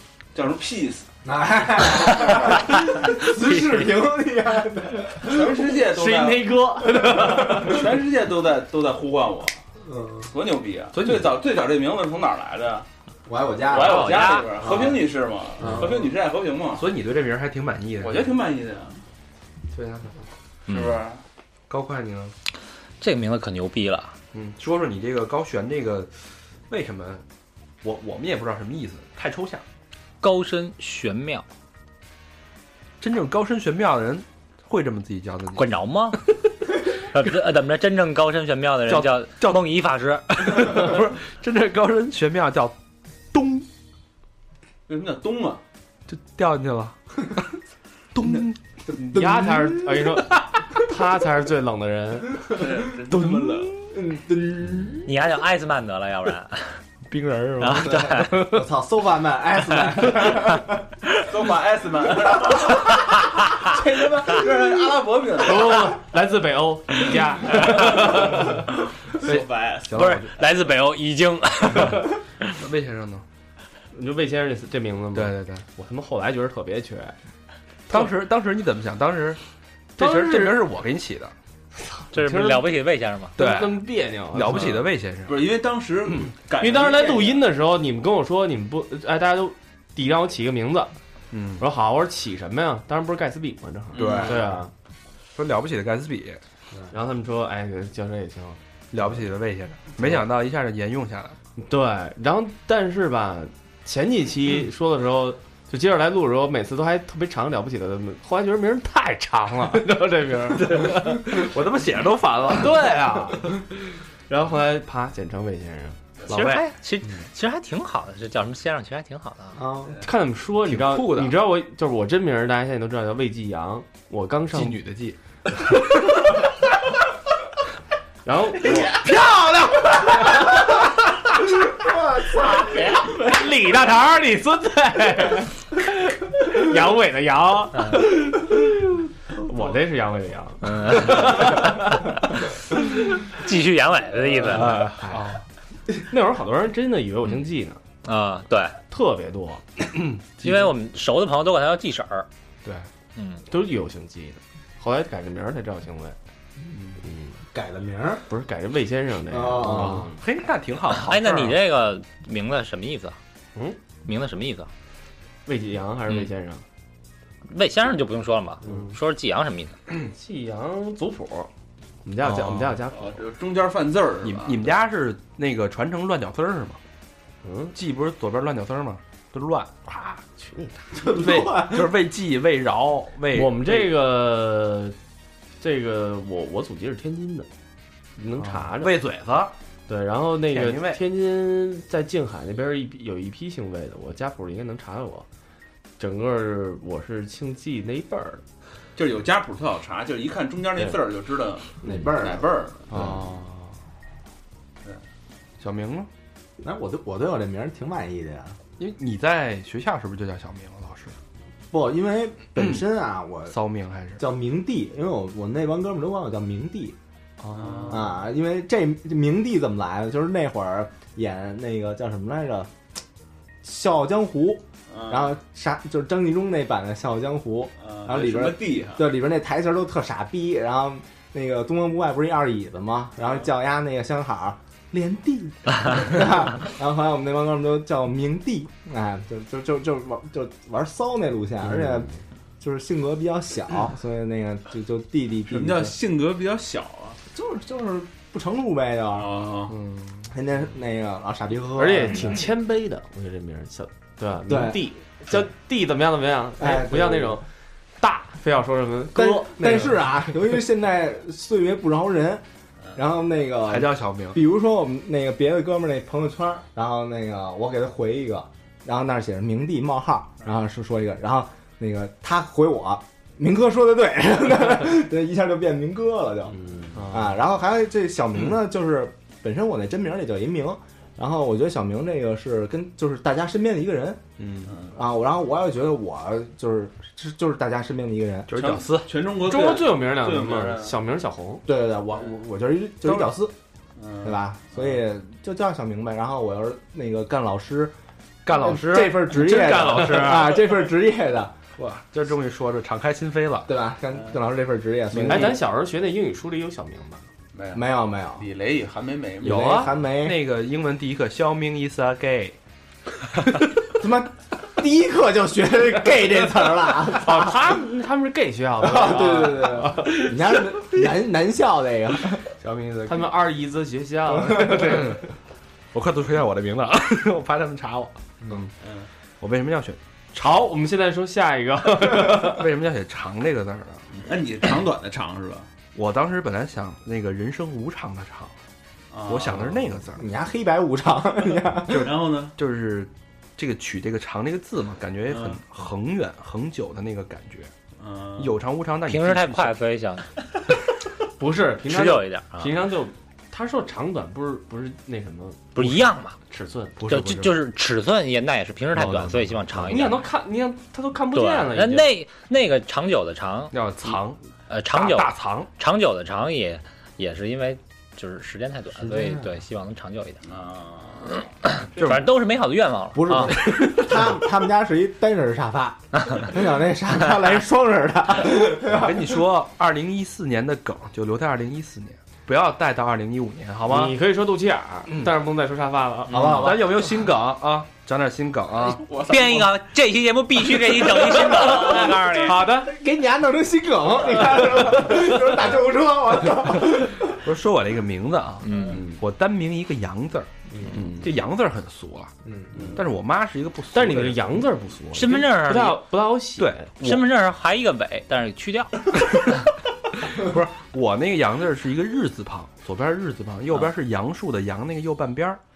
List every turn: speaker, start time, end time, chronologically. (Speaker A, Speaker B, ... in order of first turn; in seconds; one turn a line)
Speaker A: 0.3-1.1
Speaker B: 1.2-5.7
Speaker C: 2.2-3.9
Speaker A: 5.2-6.6
Speaker D: 5.9-7.9
Speaker B: 7.0-7.7
Speaker A: 7.3-9.6
Speaker B: 9.9-10.3
Speaker A: 10.3-12.9
Speaker E: 10.9-11.3
Speaker B: 13.3-14.9
Speaker A: 13.6-16.9
Speaker C: 13.8-14.5
Speaker E: 16.7-18.4
Speaker A: 18.0-19.0
Speaker E: 19.7-20.1
Speaker C: 20.7-21.0
Speaker A: 20.7-21.2
Speaker E: 21.7-22.4
Speaker C: 23.0-24.2
Speaker E: 24.3-26.1
Speaker E: 26.7-27.2
Speaker E: 27.8-29.6
Speaker C: 30.2-31.5
Speaker E: 33.0-35.7
Speaker C: 35.5-40.9
Speaker E: 38.9-39.6
Speaker E: 40.3-42.8
Speaker E: 43.3-43.7
Speaker A: 44.9-45.6
Speaker E: 46.1-47.4
Speaker E: 48.1-49.2
Speaker B: 48.9-50.0
Speaker D: 49.1-52.5
Speaker A: 52.5-53.7
Speaker E: 53.1-53.7
Speaker B: 53.8-55.1
Speaker C: 55.0-56.8
Speaker E: 57.1-58.7
Speaker C: 57.6-58.4
Speaker B: 57.7-60.8
Speaker A: 61.2-66.0
Speaker B: 63.6-64.5
Speaker D: 65.4-68.6
Speaker A: 69.0-70.0
Speaker E: 69.2-70.3
Speaker C: 69.9-72.2
Speaker E: 72.5-73.2
Speaker D: 73.9-77.2
Speaker E: 75.1-75.7
Speaker E: 77.9-79.4
Speaker E: 80.0-81.3
Speaker D: 80.0-80.7
Speaker D: 81.8-82.7
Speaker C: 82.1-83.3
Speaker D: 83.4-84.9
Speaker E: 83.4-85.4
Speaker A: 85.3-87.4
Speaker D: 86.6-91.0
Speaker E: 91.3-91.6
Speaker D: 91.6-94.7
Speaker B: 93.9-94.6
Speaker A: 94.0-94.3
Speaker E: 94.0-94.3
Speaker E: 95.3-96.4
Speaker D: 96.9-98.6
Speaker E: 98.9-101.4
Speaker D: 101.6-111.3
Speaker E: 110.6-112.9
Speaker D: 112.5-113.7
Speaker D: 114.3-116.0
Speaker C: 116.3-119.6
Speaker E: 116.3-116.7
Speaker B: 119.5-120.0
Speaker D: 120.0-124.8
Speaker E: 120.7-121.4
Speaker E: 124.5-125.2
Speaker D: 128.2-128.9
Speaker B: 128.9-130.3
Speaker B: 131.8-132.7
Speaker D: 133.2-141.8
Speaker C: 137.8-138.1
Speaker C: 140.6-142.2
Speaker C: 142.7-145.0
Speaker E: 144.5-145.4
Speaker D: 144.6-145.2
Speaker D: 145.9-147.8
Speaker C: 148.0-148.8
Speaker D: 148.9-149.7
Speaker E: 149.8-150.7
Speaker C: 150.4-152.3
Speaker C: 153.2-153.4
Speaker D: 153.5-156.2
Speaker D: 157.0-157.4
Speaker B: 157.5-158.2
Speaker D: 158.3-160.2
Speaker B: 159.3-160.1
Speaker E: 159.7-161.6
Speaker C: 160.9-163.2
Speaker C: 164.1-164.7
Speaker D: 165.5-166.6
Speaker C: 167.5-169.8
Speaker D: 168.6-168.9
Speaker D: 170.1-171.5
Speaker D: 172.1-173.2
Speaker E: 172.2-172.8
Speaker A: 172.9-174.7
Speaker E: 174.2-176.8
Speaker D: 177.4-177.8
Speaker E: 177.7-180.2
Speaker D: 180.3-181.3
Speaker B: 181.0-181.9
Speaker E: 181.2-183.9
Speaker D: 183.3-185.0
Speaker D: 185.6-187.5
Speaker D: 188.2-189.0
Speaker E: 188.4-189.5
Speaker D: 189.9-195.3
Speaker E: 190.5-191.0
Speaker D: 196.0-198.4
Speaker A: 199.0-202.9
Speaker B: 201.8-203.0
Speaker E: 202.9-203.6
Speaker E: 205.6-206.1
Speaker B: 206.6-208.6
Speaker E: 208.8-211.2
Speaker B: 211.7-213.5
Speaker E: 212.6-212.8
Speaker E: 213.5-214.2
Speaker B: 214.2-217.0
Speaker E: 217.4-218.1
Speaker A: 217.5-218.1
Speaker B: 217.9-222.7
Speaker B: 223.6-245.9
Speaker A: 224.9-225.4
Speaker A: 227.8-229.1
Speaker A: 233.2-233.5
Speaker A: 245.5-247.2
Speaker B: 247.3-249.3
Speaker A: 249.1-249.8
Speaker E: 249.7-250.3
Speaker B: 250.3-252.4
Speaker D: 251.8-257.5
Speaker B: 254.5-255.4
Speaker B: 256.6-257.4
Speaker D: 258.0-260.1
Speaker B: 259.1-284.2
Speaker E: 263.7-264.4
Speaker D: 276.6-277.4
Speaker E: 284.4-284.7
Speaker A: 284.7-284.9
Speaker B: 284.8-288.5
Speaker E: 288.5-289.1
Speaker A: 288.6-291.0
Speaker D: 289.4-291.6
Speaker B: 291.7-293.5
Speaker E: 293.0-293.3
Speaker A: 294.0-295.0
Speaker B: 294.2-297.9
Speaker E: 298.4-300.9
Speaker B: 298.5-301.6
Speaker E: 301.8-303.7
Speaker B: 303.7-305.6
Speaker A: 304.1-304.4
Speaker E: 305.1-305.6
Speaker D: 305.2-307.2
Speaker A: 307.5-309.9
Speaker B: 307.7-308.5
Speaker B: 309.4-310.4
Speaker E: 309.4-312.6
Speaker B: 313.9-317.7
Speaker D: 317.1-320.6
Speaker B: 318.8-322.5
Speaker E: 322.6-323.3
Speaker D: 323.1-325.2
Speaker B: 324.5-325.1
Speaker E: 325.9-328.7
Speaker A: 328.8-329.1
Speaker E: 329.4-330.6
Speaker D: 330.4-332.7
Speaker E: 332.1-334.1
Speaker A: 334.1-335.7
Speaker E: 335.9-338.5
Speaker A: 339.1-339.8
Speaker E: 339.3-340.3
Speaker B: 340.1-342.1
Speaker E: 341.9-347.7
Speaker A: 341.9-342.5
Speaker A: 345.3-345.6
Speaker A: 348.0-348.6
Speaker E: 348.4-349.8
Speaker C: 349.1-350.4
Speaker D: 351.4-357.0
Speaker C: 351.9-352.8
Speaker C: 355.8-356.4
Speaker E: 357.0-357.6
Speaker C: 357.0-360.2
Speaker E: 359.0-359.8
Speaker D: 359.8-362.1
Speaker C: 361.3-363.8
Speaker E: 363.7-365.7
Speaker C: 364.7-370.4
Speaker B: 369.1-369.4
Speaker A: 370.4-371.4
Speaker C: 371.6-373.6
Speaker E: 372.0-372.3
Speaker B: 373.1-379.4
Speaker E: 373.7-374.3
Speaker E: 378.9-384.1
Speaker D: 383.9-386.8
Speaker B: 386.3-387.0
Speaker E: 386.3-389.0
Speaker A: 389.0-389.7
Speaker C: 389.1-392.6
Speaker D: 391.6-392.9
Speaker B: 392.7-397.5
Speaker E: 396.6-402.3
Speaker C: 398.6-399.0
Speaker D: 401.0-401.2
Speaker B: 402.4-402.9
Speaker A: 402.7-403.0
Speaker E: 402.9-404.6
Speaker D: 403.9-406.9
Speaker C: 405.1-406.1
Speaker E: 406.6-407.3
Speaker C: 407.0-409.5
Speaker E: 410.2-415.6